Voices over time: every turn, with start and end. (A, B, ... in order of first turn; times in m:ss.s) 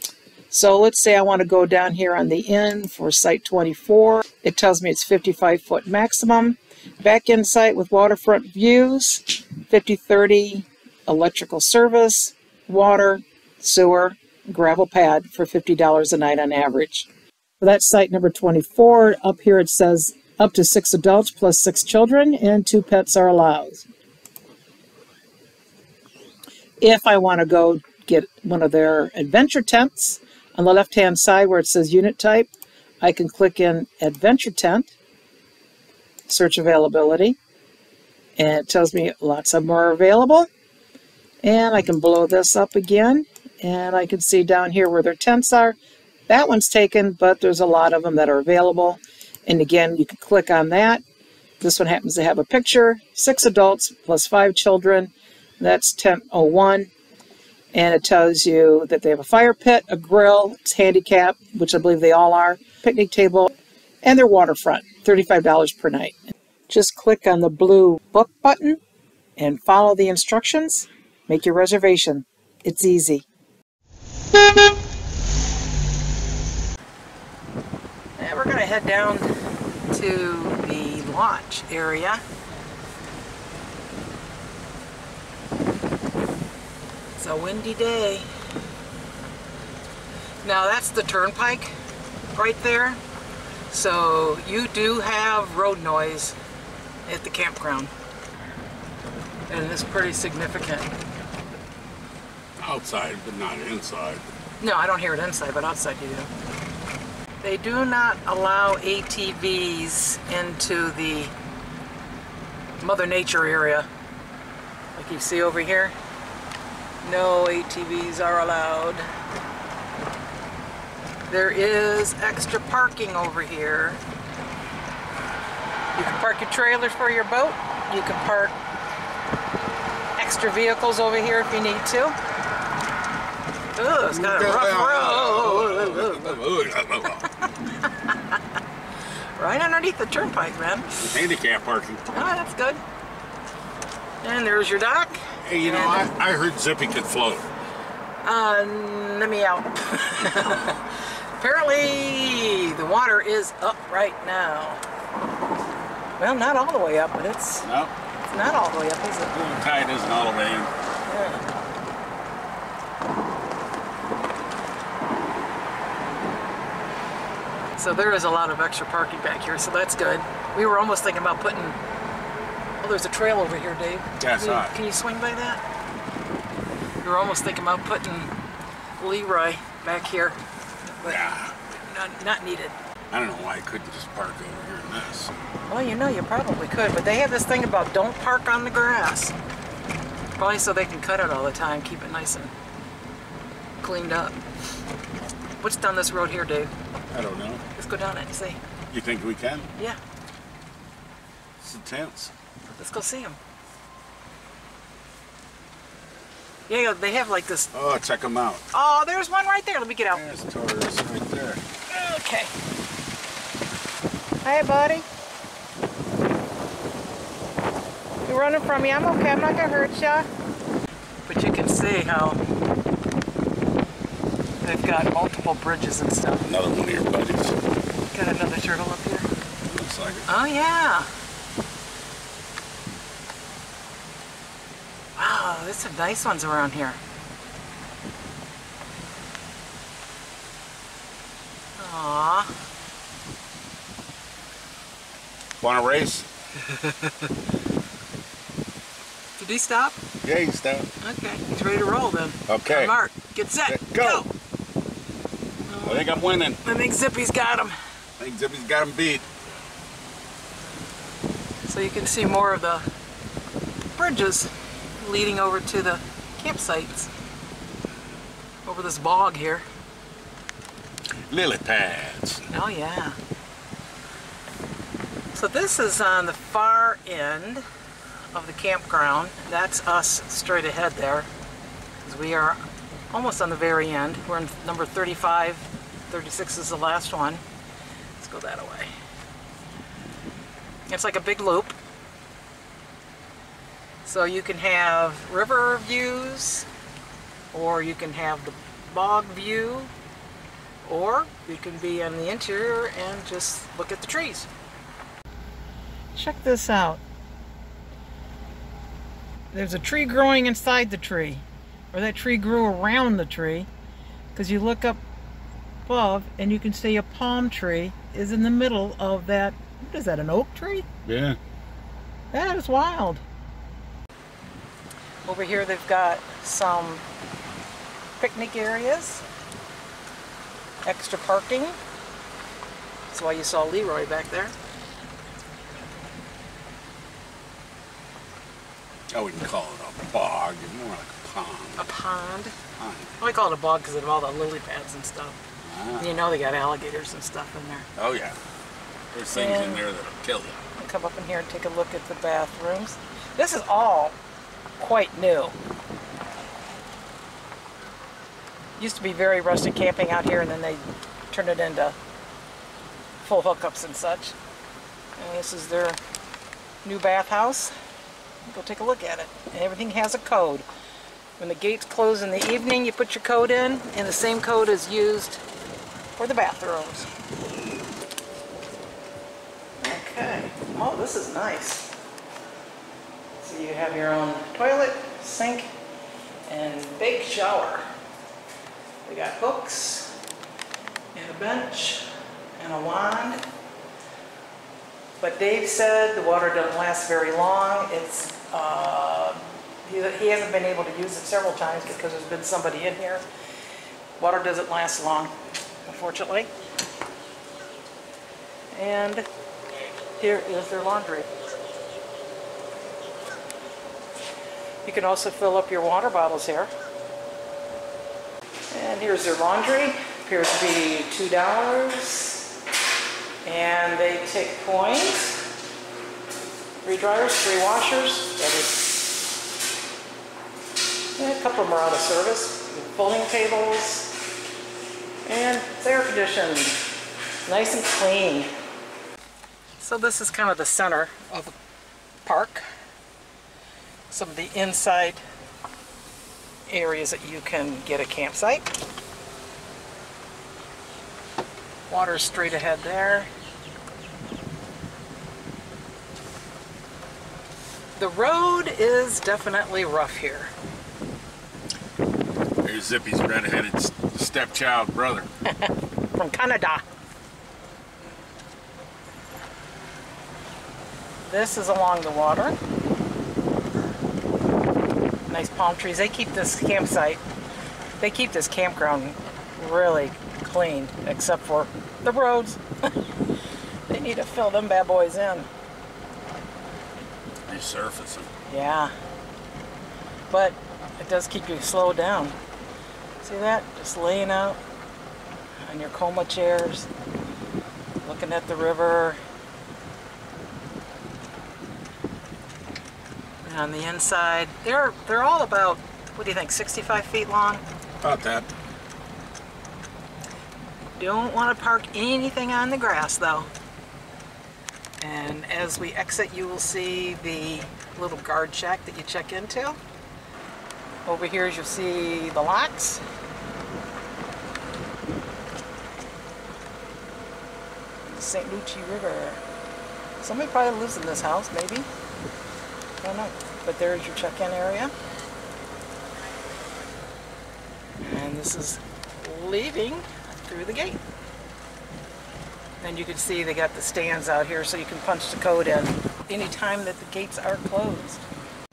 0:00.5-0:17.1 A
0:17.6-0:23.8 A
0:26.8-0:32.5 A
0:33.0-0:34.9 A
0:36.3-0:37.4 A
0:38.4-0:40.5 A
0:41.4-0:45.8 A
0:46.3-0:51.0 A
0:51.6-0:56.9 A
0:57.7-1:06.2 A
1:06.7-1:08.8 A
1:09.4-1:13.2 A
1:18.2-1:19.3 A
1:19.9-1:22.2 A
1:27.2-1:28.3 A
1:30.4-1:31.8 A
1:32.3-1:33.0 A
1:33.7-1:36.4 A
1:37.0-1:37.9 A
1:39.5-1:40.9 A
1:42.6-1:44.2 B
1:44.6-1:46.3 A
1:47.4-1:51.3 A
1:52.8-1:53.9 A
1:54.9-1:55.9 A
1:57.0-1:59.1 A
2:01.3-2:04.0 A
2:05.9-2:08.6 A
2:10.2-2:12.2 A
2:13.8-2:16.4 A
2:14.1-2:17.2 B
2:19.4-2:21.0 A
2:20.9-2:22.1 B
2:22.1-2:22.8 A
2:24.2-2:26.1 A
2:25.4-2:27.5 B
2:28.2-2:30.8 A
2:31.4-2:34.8 A
2:36.2-2:37.7 A
2:37.6-2:37.9 B
2:38.2-2:39.3 A
2:39.3-2:40.7 B
2:41.1-2:41.4 A
2:47.8-2:51.8 A
2:52.8-2:55.6 A
2:54.2-2:54.8 B
2:57.0-2:58.3 A
2:59.0-3:02.7 A
3:01.0-3:01.6 B
3:03.1-3:05.3 B
3:05.7-3:09.4 A
3:10.4-3:12.5 A
3:13.8-3:14.4 A
3:15.6-3:16.7 A
3:17.1-3:17.6 B
3:17.8-3:18.6 A
3:18.9-3:19.7 B
3:21.6-3:22.3 B
3:22.7-3:23.4 A
3:26.7-3:27.7 A
3:27.7-3:28.6 B
3:28.7-3:30.2 A
3:30.1-3:31.6 B
3:31.9-3:32.5 A
3:34.4-3:35.0 A
3:38.2-3:40.3 A
3:41.3-3:42.4 A
3:44.6-3:46.5 A
3:46.4-3:47.6 B
3:48.1-3:49.3 A
3:49.6-3:50.3 B
3:50.3-3:51.1 A
3:55.2-3:57.0 A
4:01.8-4:02.5 A
4:05.6-4:06.3 B
4:06.7-4:07.1 A
4:09.4-4:10.0 A
4:10.2-4:10.9 B
4:11.0-4:14.3 A
4:12.5-4:12.9 B
4:13.6-4:14.2 B
4:15.7-4:16.1 A
4:15.8-4:16.6 B
4:16.6-4:17.8 A
4:18.2-4:19.2 B
4:21.6-4:22.8 A
4:24.0-4:27.1 A
4:28.6-4:29.6 A
4:31.3-4:32.5 B
4:32.5-4:33.2 A
4:35.3-4:37.6 A
4:38.3-4:41.3 A
4:42.0-4:47.4 A
4:48.2-4:48.9 A
4:50.9-4:51.8 A
4:54.0-4:56.6 A
4:57.5-4:59.9 A
5:00.8-5:04.5 A
5:06.1-5:07.0 A
5:09.5-5:13.7 A
5:14.3-5:15.0 A
5:15.9-5:20.8 A
5:21.0-5:21.4 B
5:22.3-5:23.2 A
5:25.2-5:27.0 A
5:28.2-5:29.2 A
5:30.8-5:31.8 A
5:33.1-5:34.5 A
5:39.1-5:41.8 B
5:41.8-5:42.5 A
5:42.8-5:43.1 B
5:43.2-5:45.4 A
5:45.6-5:46.1 B
5:46.0-5:47.8 A
5:48.0-5:48.4 B
5:49.1-5:50.6 B
5:49.3-5:49.8 A
5:50.8-5:54.2 A
5:54.8-5:55.5 A
5:58.8-6:02.0 A
6:03.2-6:04.3 A
6:05.2-6:06.0 A
6:06.8-6:07.7 A
6:08.4-6:10.6 A
6:11.4-6:15.4 A
6:16.2-6:17.1 A
6:19.8-6:21.9 A
6:23.4-6:25.7 A
6:26.5-6:27.8 A
6:29.0-6:30.1 A
6:31.1-6:33.4 A
6:35.2-6:43.2 A
6:44.2-6:45.3 A
6:45.8-6:46.5 A
6:48.7-6:49.2 A
6:50.2-6:51.3 A
6:54.8-6:56.7 A
6:58.7-7:02.5 A
7:03.4-7:05.4 A
7:06.8-7:09.2 A
7:11.2-7:14.1 A
7:15.2-7:16.8 A
7:17.4-7:18.5 A
7:19.8-7:21.5 A
7:22.2-7:22.6 A
7:24.1-7:25.2 A
7:26.7-7:28.7 A
7:31.9-7:33.3 A
7:38.0-7:40.5 A
7:42.6-7:45.3 B
7:45.5-7:46.8 A
7:51.2-7:52.6 A
7:55.3-7:57.2 A
7:58.0-8:02.9 A
8:03.9-8:05.5 A
8:07.5-8:08.3 B
8:08.5-8:08.9 A
8:10.3-8:12.3 A
8:13.2-8:14.6 A
8:15.6-8:16.9 A
8:18.0-8:19.2 A
8:23.4-8:27.6 A
8:28.0-8:28.5 B
8:31.0-8:33.5 A
8:35.0-8:39.8 A
8:41.0-8:43.0 A
8:48.1-8:49.4 A
8:50.2-8:51.9 A
8:53.0-8:54.9 A
8:58.0-9:01.0 A
9:02.8-9:08.2 A